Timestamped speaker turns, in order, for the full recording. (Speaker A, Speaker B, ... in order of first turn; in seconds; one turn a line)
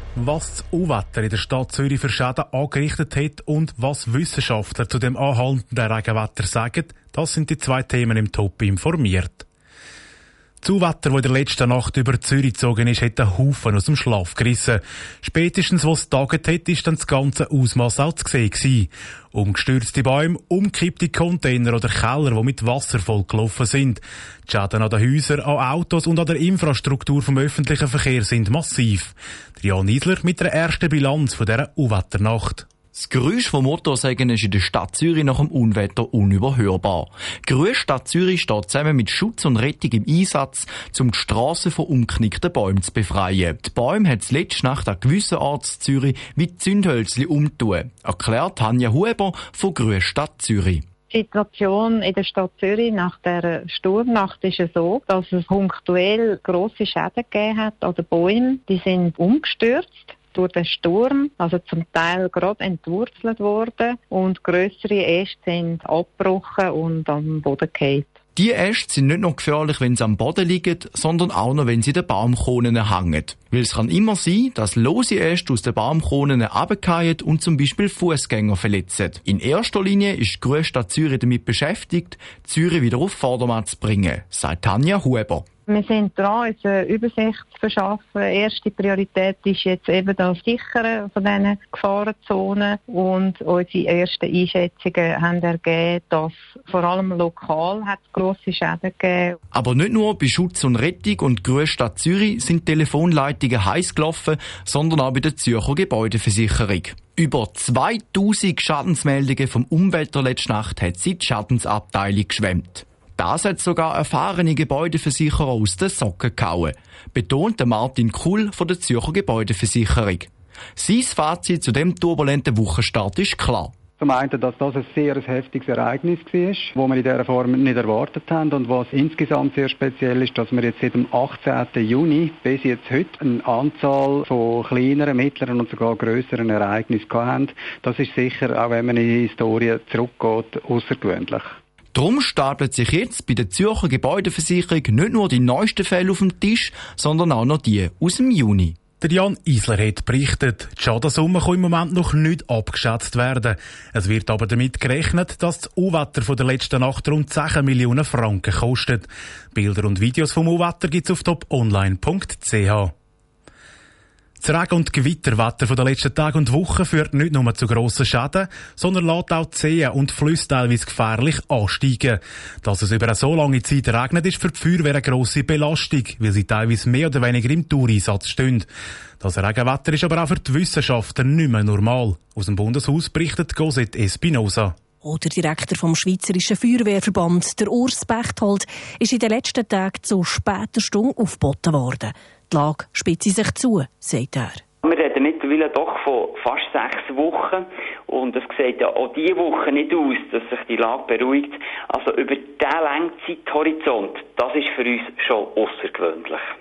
Speaker A: 0.1-9.5
Speaker A: 10.6-32.7
Speaker B: 32.9-50.8
Speaker C: 51.1-68.1
Speaker B: 68.3-85.5
Speaker C: 85.7-99.3
Speaker B: 99.5-123.7
Speaker D: 124.0-141.6
Speaker B: 141.9-148.8
Speaker A: 149.0-162.9
Speaker A: 164.4-178.7
Speaker A: 179.2-184.7
Speaker E: 185.0-194.6
Speaker F: 194.8-206.5